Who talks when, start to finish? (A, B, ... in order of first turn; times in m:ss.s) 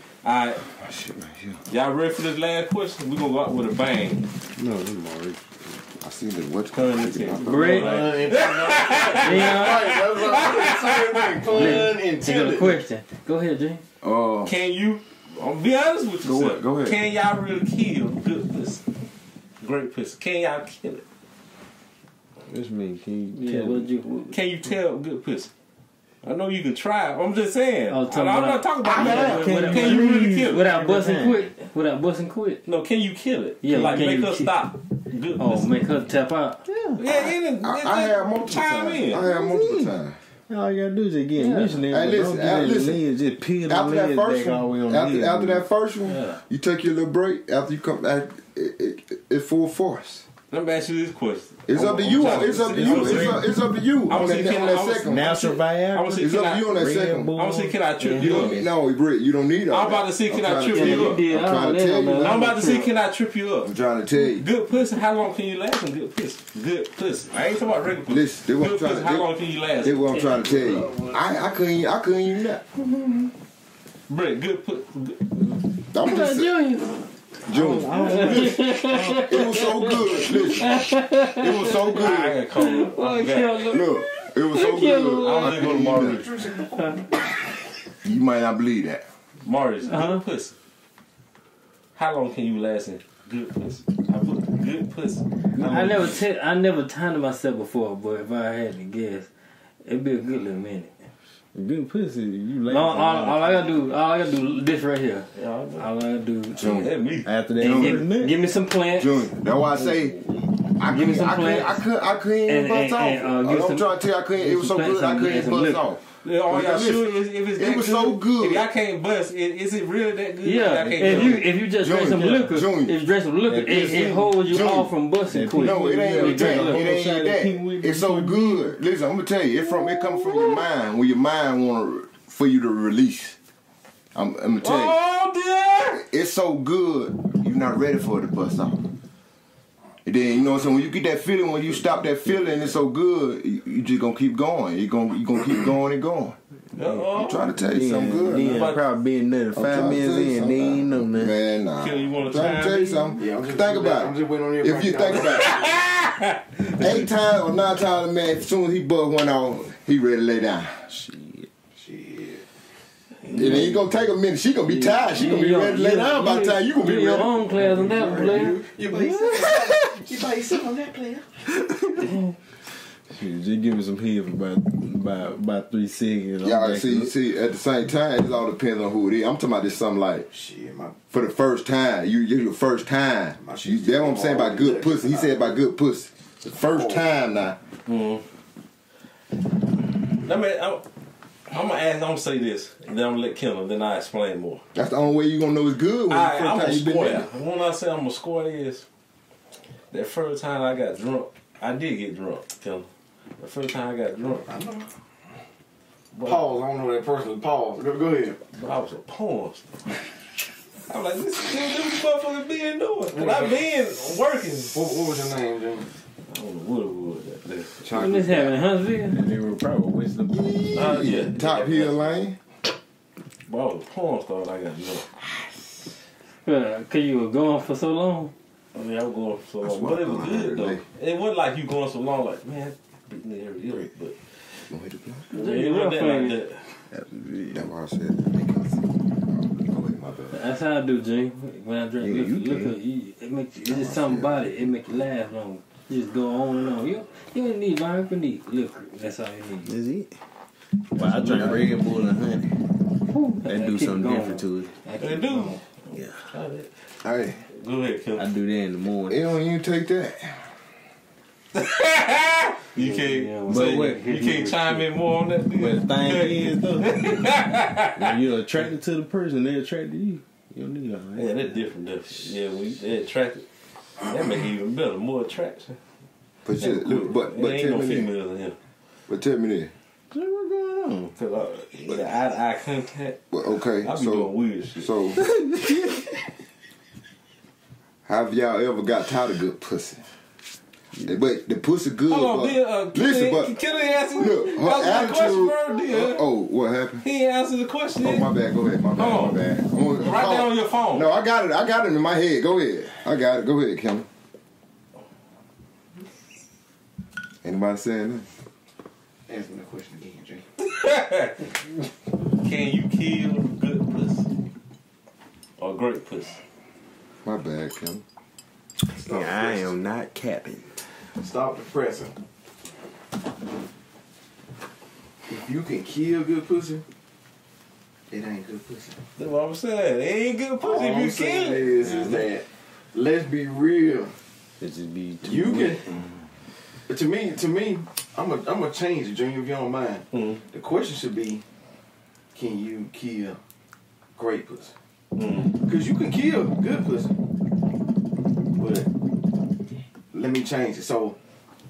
0:00.2-0:00.6 A
0:00.7-0:01.6 B
0:01.7-0:04.3 A
0:04.6-0:05.6 C
0:06.0-0:08.2 B
0:06.7-0:11.9 A
0:07.4-0:08.1 D
0:07.7-0:12.8 E
0:09.0-0:10.2 D
0:11.5-0:13.8 D
0:14.0-0:14.5 B
0:14.4-0:18.8 A
0:16.2-0:17.0 B
0:19.6-0:21.0 A
0:22.5-0:23.9 C
0:23.4-0:24.4 D
0:24.3-0:25.5 A
0:26.2-0:30.7 A
0:27.9-0:32.6 D
0:28.8-0:29.5 B
0:29.2-0:31.5 C
0:32.6-0:36.0 A
0:33.6-0:34.7 D
0:35.4-0:36.6 D
0:36.6-0:37.0 C
0:37.0-0:39.3 A
0:37.6-0:40.2 B
0:39.2-0:40.0 C
0:40.5-0:45.7 C
0:41.4-0:43.0 B
0:43.6-0:50.3 B
0:46.1-0:46.4 D
0:50.5-0:53.4 A
0:51.7-0:55.4 B
0:52.0-0:53.5 C
0:54.1-0:56.7 A
0:55.0-0:58.7 C
0:56.2-0:57.3 B
0:57.3-0:58.6 A
0:58.1-1:02.5 B
0:59.7-1:01.2 A
1:00.7-1:02.9 D
1:02.2-1:10.2 A
1:03.6-1:04.4 B
1:08.1-1:09.3 B
1:09.8-1:12.6 B
1:10.2-1:11.0 D
1:14.1-1:15.5 A
1:15.9-1:16.5 B
1:16.0-1:17.0 D
1:17.5-1:22.4 B
1:17.5-1:18.9 C
1:18.0-1:25.7 D
1:21.9-1:23.6 A
1:23.6-1:26.2 B
1:25.2-1:26.3 A
1:25.9-1:27.0 E
1:26.6-1:27.1 D
1:28.0-1:29.0 B
1:29.4-1:30.6 A
1:29.8-1:30.2 D
1:32.0-1:35.2 A
1:35.6-1:36.1 C
1:35.6-1:39.3 D
1:39.8-1:41.0 D
1:41.5-1:43.8 C
1:42.7-1:46.9 D
1:45.3-1:45.9 A
1:46.6-1:47.0 B
1:46.7-1:47.3 A
1:47.2-1:48.4 C
1:47.6-1:49.3 D
1:47.6-1:48.0 B
1:49.0-1:50.2 B
1:49.7-1:50.5 C
1:50.8-1:58.7 B
1:50.8-1:51.9 D
1:52.4-1:55.9 D
1:56.2-2:01.4 A
2:00.4-2:06.8 D
2:00.8-2:01.4 C
2:01.8-2:03.0 B
2:03.5-2:04.6 C
2:04.5-2:04.9 B
2:05.3-2:08.8 C
2:05.6-2:13.4 B
2:14.2-2:15.0 B
2:14.6-2:16.0 A
2:15.9-2:18.8 B
2:20.0-2:26.4 B
2:21.9-2:22.6 C
2:26.8-2:27.6 A
2:27.2-2:28.6 B
2:27.6-2:31.4 C
2:28.2-2:28.8 A
2:29.5-2:35.5 B
2:31.8-2:33.2 A
2:33.2-2:35.8 E
2:35.2-2:37.1 A
2:36.8-2:40.8 B
2:40.9-2:41.5 C
2:41.8-2:42.4 E
2:43.3-2:44.1 C
2:43.3-2:47.4 B
2:44.7-2:48.6 D
2:45.8-2:46.8 C
2:47.6-2:51.3 E
2:48.9-2:50.0 C
2:51.6-2:52.1 C
2:53.1-2:57.1 C
2:56.4-3:00.3 B
3:00.3-3:01.0 E
3:01.1-3:07.6 B
3:03.4-3:05.6 E
3:06.4-3:07.1 E
3:07.9-3:08.2 A
3:10.2-3:10.8 A
3:11.5-3:14.6 A
3:14.8-3:17.3 B
3:16.1-3:18.8 A
3:19.9-3:22.9 A
3:23.4-3:24.5 A
3:24.5-3:24.9 E
3:26.1-3:26.5 A
3:26.2-3:28.4 E
3:28.5-3:30.0 A
3:30.9-3:35.3 A
3:33.1-3:33.6 E
3:34.7-3:35.9 E
3:36.3-3:37.8 A
3:37.8-3:38.6 B
3:37.9-3:39.2 D
3:39.1-3:41.1 C
3:40.3-3:42.4 B
3:40.7-3:42.2 A
3:43.5-3:45.1 A
3:46.4-3:48.3 D
3:48.7-3:54.2 A
3:49.6-3:50.8 B
3:54.7-3:55.3 B
3:55.3-3:56.6 A
3:55.3-3:56.4 D
3:56.9-3:57.7 C
3:57.5-4:00.4 B
4:00.3-4:09.8 D
4:02.0-4:02.8 C
4:03.6-4:04.6 B
4:09.6-4:10.2 C
4:11.0-4:12.5 C
4:11.0-4:11.6 D
4:11.2-4:11.6 B
4:13.1-4:15.6 D
4:13.4-4:14.7 C
4:15.0-4:16.7 A
4:17.0-4:17.4 B
4:17.5-4:18.3 A
4:18.2-4:19.2 C
4:19.1-4:20.4 B
4:21.5-4:28.1 A
4:22.8-4:24.9 D
4:23.5-4:24.0 C
4:25.5-4:27.2 C
4:27.9-4:31.5 C
4:31.2-4:33.4 A
4:34.0-4:35.8 A
4:36.4-4:38.1 B
4:36.6-4:38.6 A
4:39.1-4:39.7 B
4:40.1-4:41.1 C
4:41.1-4:43.2 A
4:43.3-4:45.2 B
4:43.8-4:44.9 A
4:45.2-4:46.1 C
4:48.1-4:50.0 B
4:51.0-4:53.5 B
4:52.1-4:56.3 A
4:54.2-4:57.0 B
4:57.0-4:58.3 A
4:58.0-5:04.1 B
4:59.0-5:01.1 A
5:07.4-5:08.3 B
5:09.3-5:10.4 E
5:10.6-5:11.6 A
5:12.3-5:14.3 A
5:15.6-5:16.4 A
5:17.2-5:18.0 B
5:18.9-5:19.7 E
5:18.9-5:20.8 C
5:21.2-5:22.2 E
5:25.3-5:26.8 E
5:28.1-5:29.0 E
5:29.2-5:31.7 A
5:30.6-5:34.1 E
5:31.8-5:32.3 C
5:34.6-5:35.9 C
5:35.2-5:35.9 E
5:36.9-5:41.4 E
5:40.1-5:40.4 A
5:42.3-5:43.4 E
5:44.2-5:44.7 E
5:45.2-5:45.6 A
5:45.6-5:47.2 E
5:48.5-5:48.9 E
5:50.1-5:51.2 E